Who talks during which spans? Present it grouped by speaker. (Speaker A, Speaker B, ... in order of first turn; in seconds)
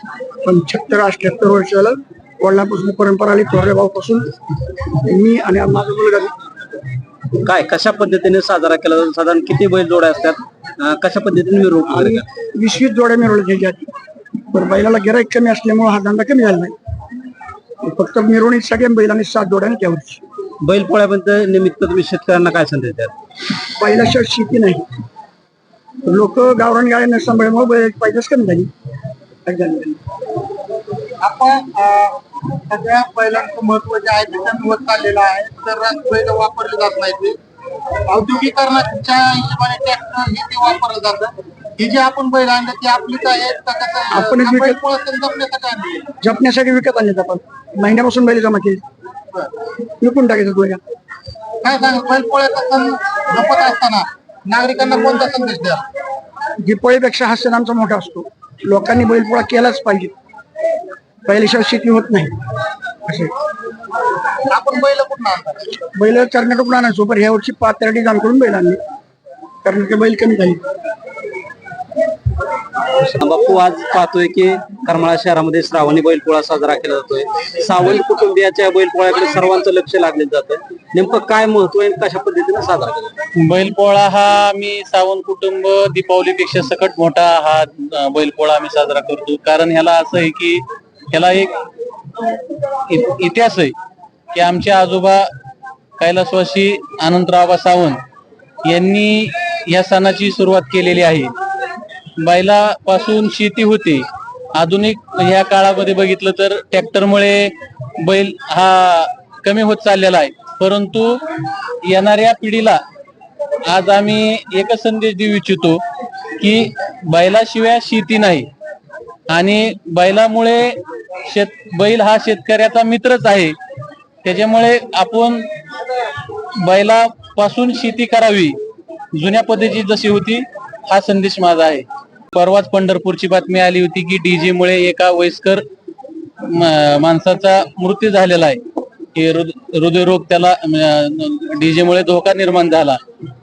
Speaker A: 0.4-4.3, 5.0-6.3, 11.9-13.9, 14.5-16.8, 17.8-20.2, 23.8-24.9, 26.0-28.7, 29.4-30.0, 44.1-44.8, 46.2-48.8, 50.0-50.8, 56.6-60.1, 61.2-62.4, 63.0-63.3, 65.9-68.8, 69.6-70.6
Speaker B: 7.4-12.2, 20.6-23.1, 73.0-83.1
Speaker C: 31.2-37.4, 38.1-46.1, 51.6-55.8, 64.5-65.8
Speaker D: 83.4-91.5, 92.9-93.7, 94.3-95.3, 96.0-98.0, 98.6-101.3, 102.2-111.2, 111.8-112.8, 113.7-115.8, 116.4-118.5, 119.3-123.5, 124.2-125.5, 126.6-128.6, 129.1-135.6, 136.4-138.6, 139.1-143.0